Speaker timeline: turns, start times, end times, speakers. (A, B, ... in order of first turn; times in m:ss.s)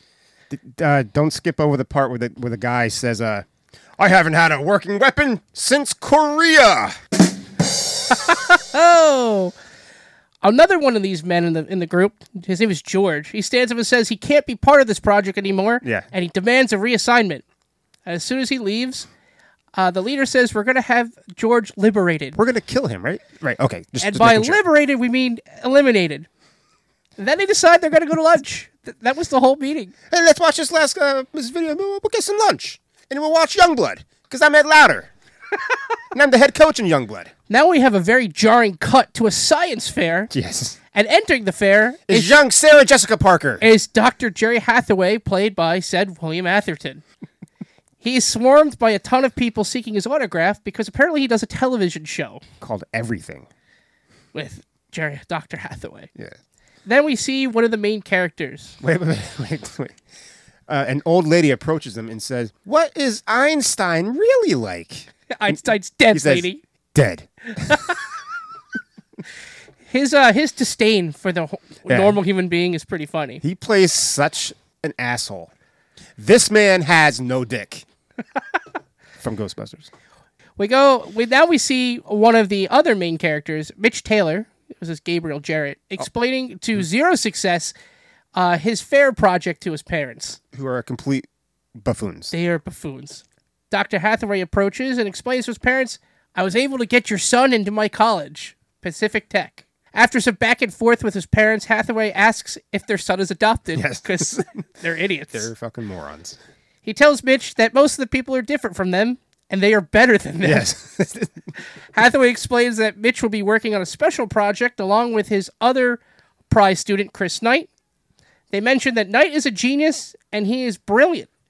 0:00.5-0:03.5 A
0:04.0-0:07.0 A
0:08.1-0:09.6 B
0:10.4-0:17.4 B
0:18.1-0:19.1 B
0:19.7-0:22.4 B
0:22.4-0:24.6 A
0:24.0-0:26.3 B
0:27.2-0:29.9 B
0:30.1-0:35.1 A
0:36.1-0:37.3 A
0:37.5-0:40.3 B
0:40.3-0:40.8 A
0:40.9-0:42.4 B
0:42.1-0:43.6 A
0:43.6-0:47.0 B
0:48.0-0:52.4 B
0:52.6-0:53.5 A
0:54.3-0:56.1 B
0:56.8-0:58.8 B
0:58.8-1:00.0 A
1:00.7-1:07.8 A
1:05.3-1:06.6 B
1:07.6-1:08.0 B
1:09.9-1:13.4 B
1:11.9-1:12.2 A
1:13.4-1:15.5 A
1:16.2-1:17.8 A
1:19.2-1:19.9 A
1:20.6-1:27.8 B
1:28.4-1:30.4 B
1:30.5-1:32.3 A
1:32.3-1:45.5 B
1:43.7-1:44.6 A
1:45.3-1:46.4 A
1:46.8-1:50.7 B
1:50.4-1:51.4 A
1:51.9-1:57.7 B
1:58.5-2:01.3 B